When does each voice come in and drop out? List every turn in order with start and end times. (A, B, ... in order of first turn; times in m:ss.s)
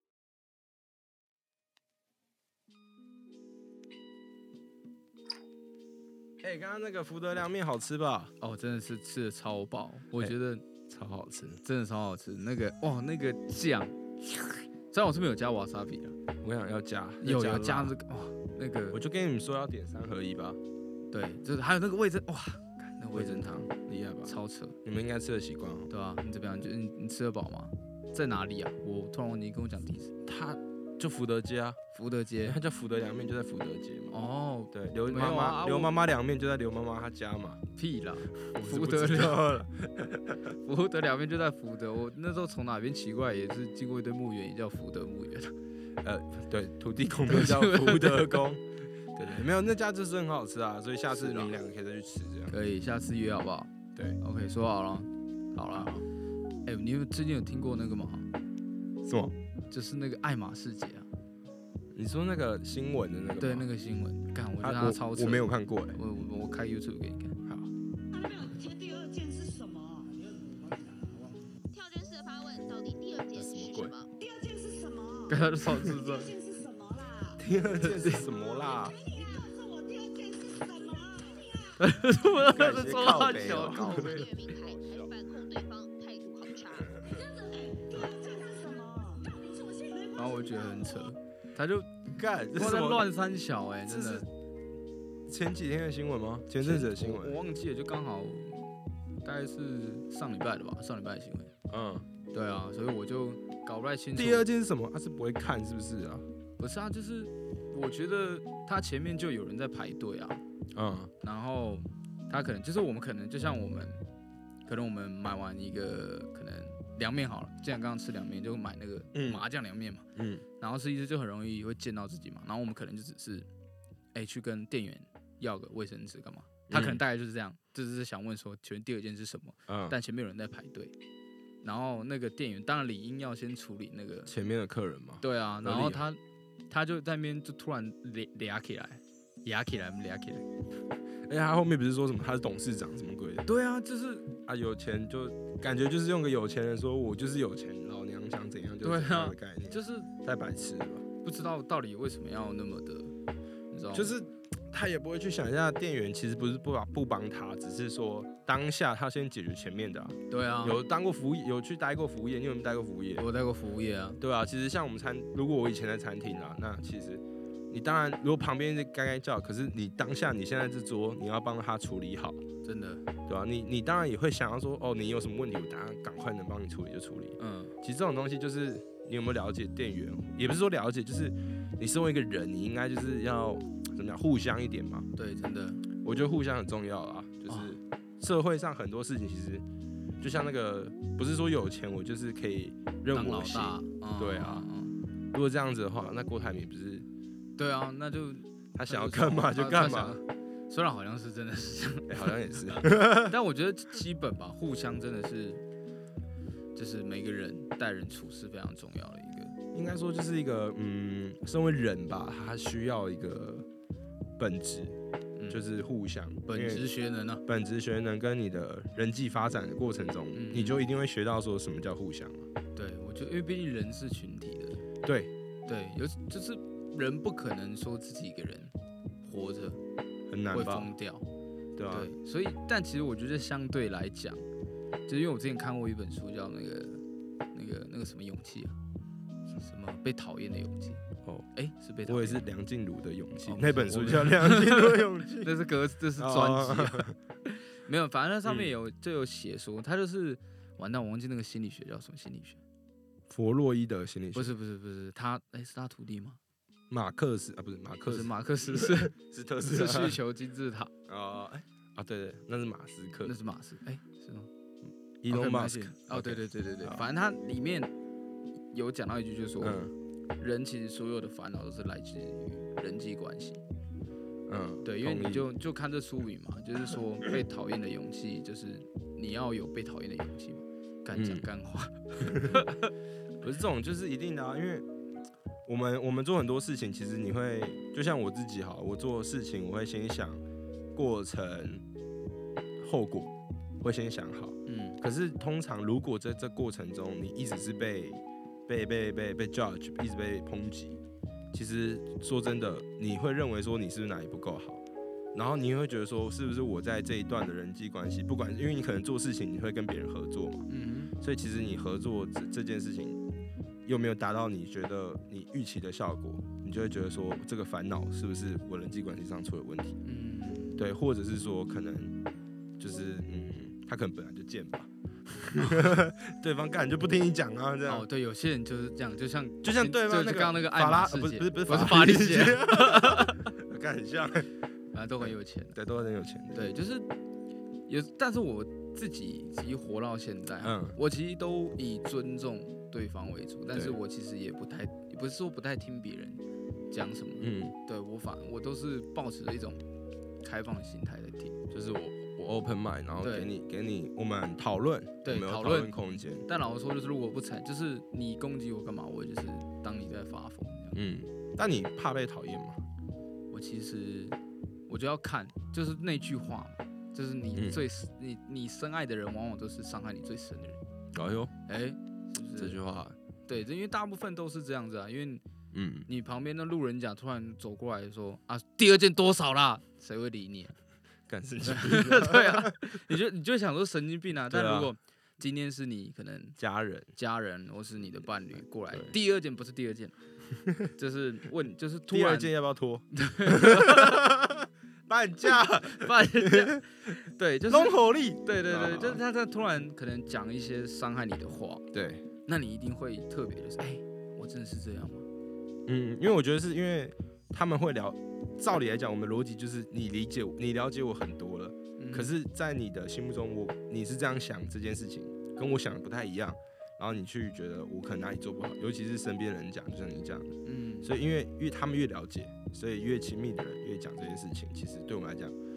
0:06.4-0:08.3 A
0:08.4-0:10.6 B
0:10.9-0:11.6 A
0:11.6-0:16.2 B
0:16.4-0:17.9 A
0:17.2-0:19.0 B
0:18.9-0:20.6 A
0:21.1-0:23.7 B
0:23.1-0:25.9 A
0:24.2-0:24.8 B
0:25.9-0:30.1 B
0:30.2-0:31.8 A
0:31.9-0:32.6 B
0:32.4-0:34.1 A
0:34.1-0:35.9 B
0:34.7-0:37.6 A
0:37.8-0:39.4 B
0:38.5-0:40.5 A
0:40.6-0:45.5 B
0:46.0-0:52.6 A
0:47.3-0:48.4 B
0:51.1-0:51.6 B
0:52.5-0:56.0 B
0:55.7-0:56.0 A
0:56.6-0:58.3 B
0:59.0-0:59.3 A
0:59.7-1:01.1 B
1:01.9-1:03.7 A
1:03.4-1:07.4 B
1:04.6-1:06.0 A
1:07.4-1:07.7 A
1:08.1-1:11.5 C
1:11.7-1:14.1 D
1:13.3-1:14.0 A
1:14.2-1:17.4 C
1:15.3-1:16.3 B
1:17.4-1:19.0 A
1:17.8-1:18.3 B
1:18.2-1:21.8 C
1:21.8-1:24.3 B
1:22.4-1:25.1 A
1:23.5-1:27.0 D
1:27.0-1:31.1 C
1:30.2-1:31.9 B
1:32.1-1:33.1 A
1:32.5-1:34.2 B
1:33.8-1:34.3 A
1:35.3-1:37.4 A
1:36.6-1:38.7 B
1:39.2-1:41.5 B
1:41.7-1:42.1 A
1:42.3-1:44.5 B
1:44.2-1:46.2 A
1:46.6-1:50.4 B
1:50.7-1:51.1 A
1:51.2-1:54.0 B
1:54.6-2:00.0 B
1:59.1-1:59.4 A
2:00.1-2:00.4 A
2:00.6-2:03.5 B
2:04.1-2:10.9 B
2:06.7-2:07.0 A
2:09.7-2:10.0 A
2:11.6-2:14.3 B
2:14.3-2:16.0 A
2:15.2-2:20.4 B
2:21.3-2:23.4 A
2:23.4-2:24.3 B
2:24.4-2:31.0 A
2:28.8-2:30.1 B
2:31.2-2:33.1 B
2:33.7-2:34.2 B
2:33.9-2:43.2 A
2:40.3-2:40.8 B
2:43.2-2:44.2 B
2:44.2-2:52.4 A
2:52.6-2:53.0 B
2:53.3-3:05.0 A
2:57.4-2:57.7 B
3:05.2-3:05.8 B
3:06.0-3:09.6 A
3:07.5-3:07.8 B
3:10.2-3:14.7 A
3:13.1-3:15.0 B
3:15.3-3:17.1 A
3:17.6-3:25.6 B
3:18.7-3:20.2 A
3:22.1-3:23.3 A
3:26.7-3:29.6 B
3:29.7-3:33.7 A
3:34.4-3:35.0 A
3:35.4-3:35.6 B
3:35.5-3:36.9 A
3:36.5-3:37.4 B
3:37.4-3:42.5 A
3:40.3-3:40.9 B
3:42.7-3:44.8 B
3:45.0-3:45.3 A
3:45.7-3:49.8 B
3:50.3-3:50.9 A
3:50.5-3:51.2 B
3:51.8-3:52.1 A
3:51.9-3:54.4 B
3:55.0-3:57.0 B
3:57.5-3:58.7 B
3:59.6-4:02.4 B
4:02.0-4:05.5 A
4:03.4-4:12.6 B
4:06.2-4:07.2 A
4:08.4-4:08.7 A
4:13.3-4:14.5 A
4:14.3-4:16.4 B
4:16.9-4:20.2 A
4:18.0-4:19.1 B
4:19.6-4:20.9 B
4:21.1-4:23.4 A
4:23.2-4:24.5 B
4:25.2-4:27.0 A
4:25.3-4:27.9 B
4:28.7-4:29.8 B
4:29.6-4:29.9 A
4:30.4-4:33.6 B
4:34.5-4:35.5 A
4:34.8-4:42.9 B
4:41.1-4:41.5 A
4:42.2-4:42.7 A
4:43.4-4:44.8 A
4:45.6-4:50.4 A
4:50.9-4:51.8 A
4:52.8-5:01.0 A
4:54.7-4:55.0 B
5:01.5-5:04.8 A
5:05.3-5:10.7 A
5:10.7-5:11.1 B
5:11.2-5:13.2 A
5:13.8-5:20.0 A
5:20.0-5:20.8 B
5:20.8-5:22.2 A
5:22.8-5:28.1 A
5:25.6-5:25.8 B
5:27.8-5:33.4 B
5:29.6-5:34.5 A
5:34.9-5:35.8 B
5:35.2-5:36.7 A
5:36.5-5:37.1 B
5:37.9-5:49.8 B
5:40.6-5:41.0 A
5:43.7-5:44.0 A
5:47.4-5:47.7 A
5:50.4-5:51.6 B
5:51.7-5:56.4 A
5:53.2-5:53.5 B
5:55.2-5:55.9 B
5:56.5-6:01.0 B
6:00.9-6:02.8 A
6:03.5-6:04.4 B
6:04.9-6:10.8 B
6:11.1-6:11.5 A
6:11.7-6:12.8 B
6:12.6-6:13.2 A
6:13.5-6:15.4 B
6:15.7-6:16.1 A
6:16.1-6:20.8 B
6:21.3-6:22.9 A
6:21.6-6:26.6 B
6:24.5-6:24.9 A
6:26.6-6:27.1 A
6:27.1-6:30.1 B
6:30.6-6:30.9 A
6:30.9-6:32.5 B
6:32.1-6:36.8 A
6:33.1-6:34.4 B
6:35.8-6:41.8 B
6:37.7-6:39.2 A
6:41.9-6:42.2 A
6:42.4-6:45.3 B
6:45.9-7:05.5 A
6:52.0-6:52.3 B
7:00.6-7:01.1 B